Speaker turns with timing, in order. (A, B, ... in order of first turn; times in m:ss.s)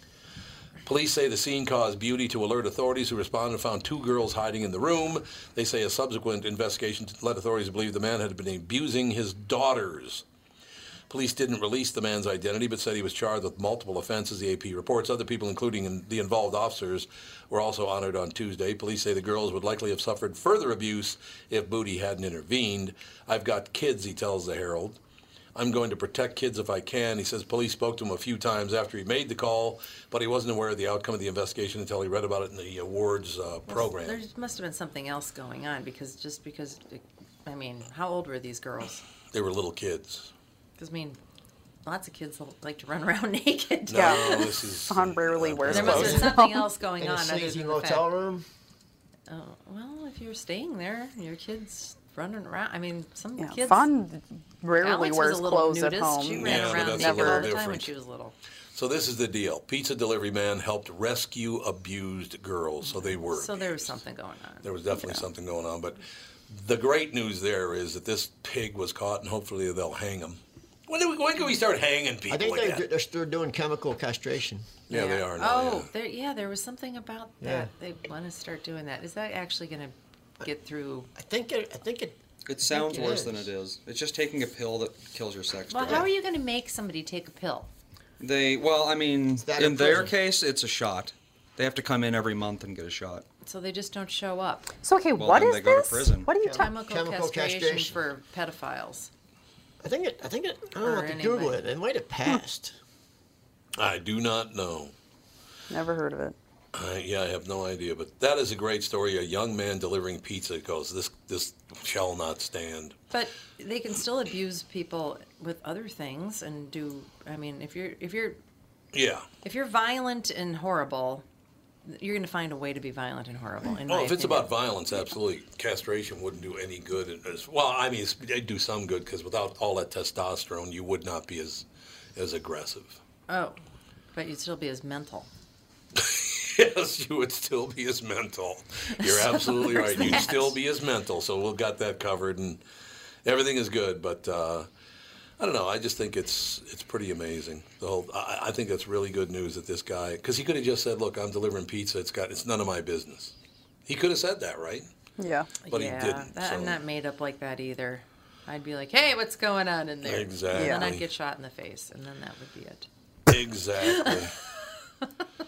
0:00.8-0:10.2 A
0:11.1-0:25.0 A
0:25.5-0:34.2 A
0:33.7-0:39.0 B
0:39.3-0:40.3 A
0:40.8-0:41.2 B
0:41.8-0:44.5 B
0:43.9-0:46.3 A
0:43.9-0:46.7 C
0:45.7-0:48.1 B
0:45.9-0:46.4 D
0:47.0-0:48.4 D
0:49.3-0:53.9 B
0:53.4-0:57.5 C
0:54.8-0:58.3 B
0:56.3-0:57.9 A
0:58.7-1:04.0 A
1:03.3-1:04.7 B
1:04.6-1:12.8 A
1:12.3-1:14.7 D
1:14.9-1:15.9 A
1:14.9-1:21.1 B
1:17.4-1:17.7 D
1:21.1-1:22.2 D
1:22.5-1:26.1 E
1:22.7-1:23.5 D
1:25.7-1:27.7 B
1:28.2-1:33.2 E
1:29.4-1:30.1 D
1:33.4-1:34.7 B
1:34.8-1:36.7 C
1:35.1-1:36.3 E
1:36.3-1:38.0 D
1:36.5-1:39.1 B
1:39.8-1:42.8 D
1:40.8-1:41.6 B
1:43.8-1:44.9 A
1:45.7-1:46.4 C
1:46.7-1:53.0 A
1:53.1-1:58.4 B
1:58.9-1:59.2 A
1:59.4-2:01.2 B
2:01.8-2:04.5 B
2:03.9-2:11.6 A
2:12.2-2:13.0 A
2:13.3-2:13.6 B
2:14.1-2:15.3 B
2:15.9-2:22.6 A
2:19.0-2:20.5 B
2:23.2-2:24.7 A
2:25.4-2:33.3 A
2:33.9-2:34.9 A
2:35.2-2:35.5 C
2:35.6-2:42.9 B
2:35.7-2:36.8 A
2:40.0-2:41.0 A
2:40.5-2:40.8 C
2:43.3-2:44.3 A
2:43.8-2:44.3 B